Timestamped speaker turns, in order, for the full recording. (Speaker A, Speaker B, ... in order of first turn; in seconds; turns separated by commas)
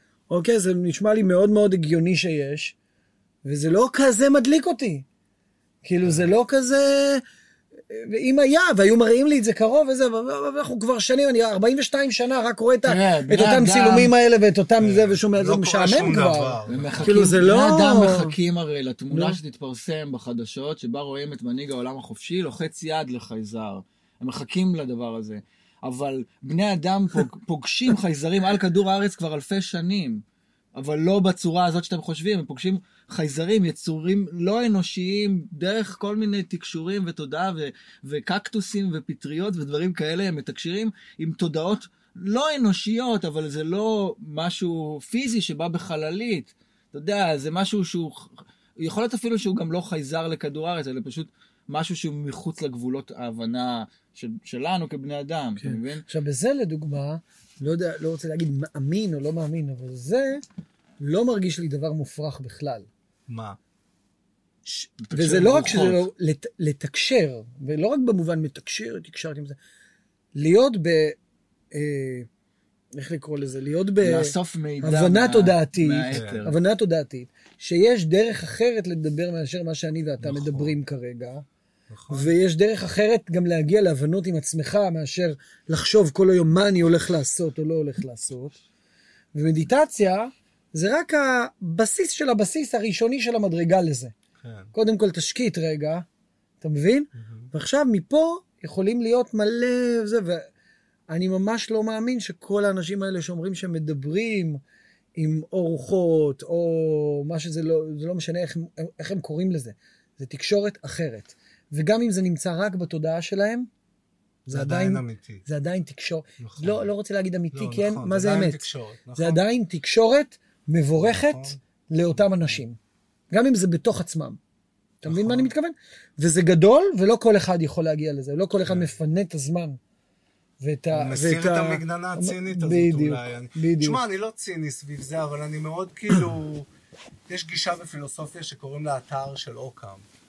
Speaker A: 0.3-2.7, Speaker A: 3.4-5.0, Speaker A: 5.8-7.2, Speaker B: 6.0-6.3, Speaker A: 7.9-18.4, Speaker C: 12.8-14.1, Speaker B: 14.8-17.5, Speaker C: 16.7-30.2, Speaker A: 19.1-19.4, Speaker C: 30.7-56.0, Speaker A: 55.6-60.4, Speaker A: 61.0-62.9, Speaker B: 63.3-63.6, Speaker C: 65.0-66.1, Speaker A: 65.1-69.6, Speaker A: 70.3-71.2, Speaker A: 71.7-72.3, Speaker A: 73.0-81.4, Speaker C: 74.0-76.6, Speaker B: 76.1-76.4, Speaker B: 80.2-80.7, Speaker B: 81.9-82.3, Speaker A: 82.1-88.6, Speaker A: 89.3-94.1, Speaker B: 94.4-94.7, Speaker A: 94.7-96.0, Speaker A: 96.6-100.5, Speaker B: 97.1-97.5, Speaker A: 101.1-104.6, Speaker A: 105.2-113.7, Speaker A: 114.5-118.6, Speaker B: 114.5-115.4, Speaker B: 116.4-116.9, Speaker B: 117.5-119.4, Speaker A: 119.2-122.8, Speaker B: 121.0-121.6, Speaker B: 122.1-122.6, Speaker A: 123.3-124.4, Speaker A: 125.0-129.8, Speaker B: 125.0-125.5, Speaker B: 128.6-128.9, Speaker A: 130.6-134.0, Speaker B: 130.9-136.7, Speaker B: 137.3-140.0